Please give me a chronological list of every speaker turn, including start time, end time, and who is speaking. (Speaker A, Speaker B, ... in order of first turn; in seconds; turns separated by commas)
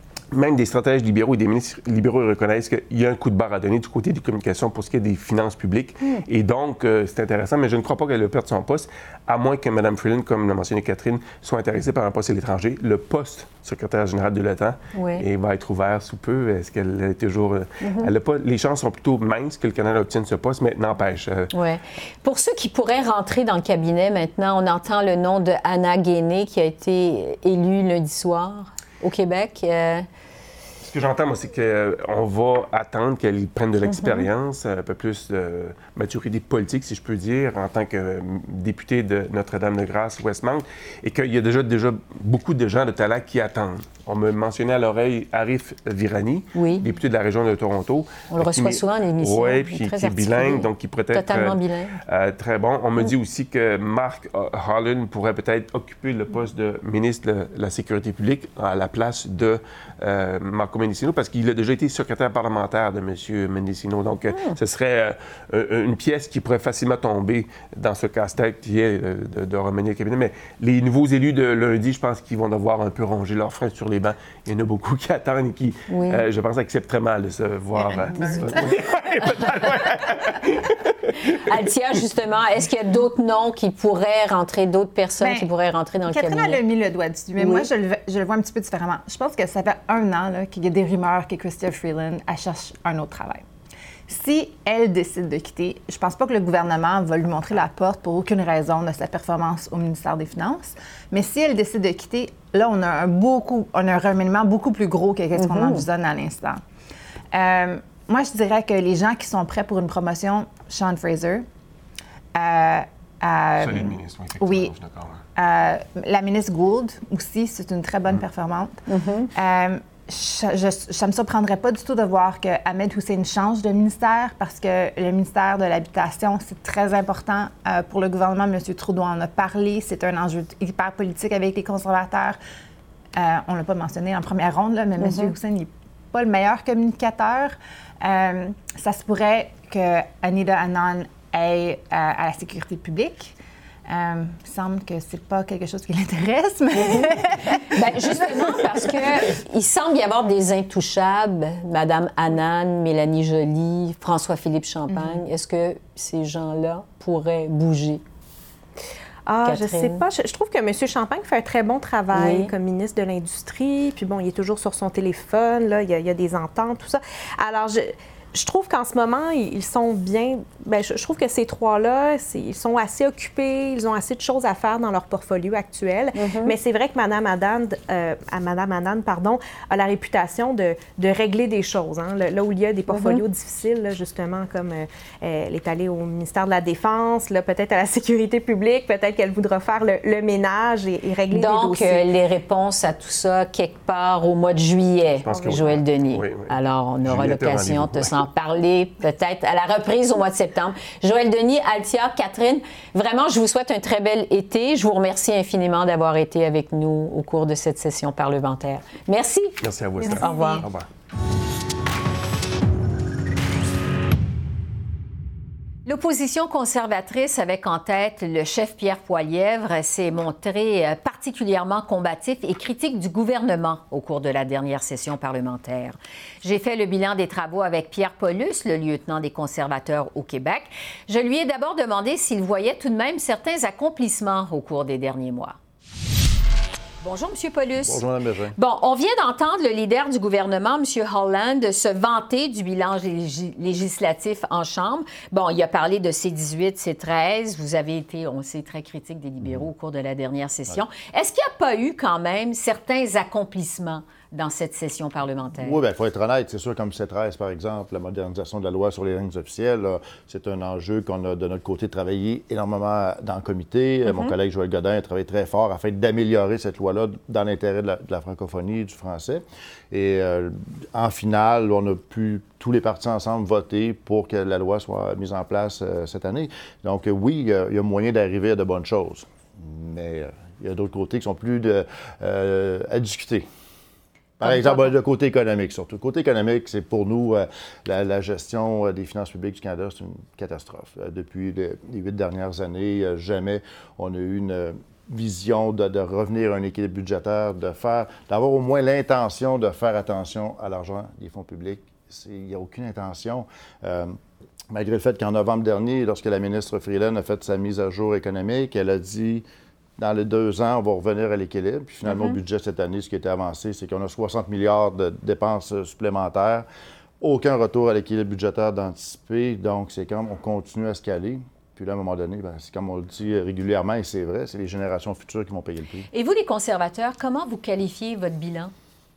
Speaker A: 0.3-21.5, Speaker B: 14.9-15.2, Speaker B: 17.8-18.1, Speaker B: 21.5-30.1, Speaker A: 30.8-81.4, Speaker B: 33.9-34.3, Speaker B: 46.5-46.9, Speaker B: 48.3-52.0, Speaker B: 64.3-64.6, Speaker B: 75.9-76.2, Speaker B: 81.3-86.6, Speaker C: 85.2-85.5, Speaker C: 86.1-93.4, Speaker B: 87.4-87.7, Speaker C: 94.1-106.6, Speaker B: 105.4-105.8, Speaker C: 107.3-111.5, Speaker C: 112.3-114.7, Speaker A: 113.6-115.2, Speaker C: 115.3-132.4, Speaker B: 118.9-119.3, Speaker C: 133.2-143.4, Speaker B: 135.0-135.3, Speaker C: 143.9-149.0, Speaker B: 147.6-158.0, Speaker C: 154.9-155.2, Speaker D: 159.3-192.1, Speaker B: 159.4-160.0, Speaker B: 162.1-162.5, Speaker B: 176.2-176.5, Speaker B: 182.9-183.2, Speaker B: 191.3-209.6, Speaker A: 195.2-196.5, Speaker D: 195.3-195.6, Speaker A: 197.0-198.2, Speaker A: 209.6-210.9, Speaker C: 210.0-210.7, Speaker B: 210.1-210.6, Speaker B: 215.9-235.6, Speaker B: 237.0-238.0, Speaker E: 237.8-238.6, Speaker B: 238.6-255.8, Speaker E: 255.6-283.4, Speaker B: 264.1-264.3, Speaker E: 284.4-304.1, Speaker B: 284.5-284.9, Speaker E: 304.7-309.4, Speaker E: 310.0-316.6, Speaker B: 312.1-312.4, Speaker E: 317.2-326.1, Speaker B: 326.1-328.7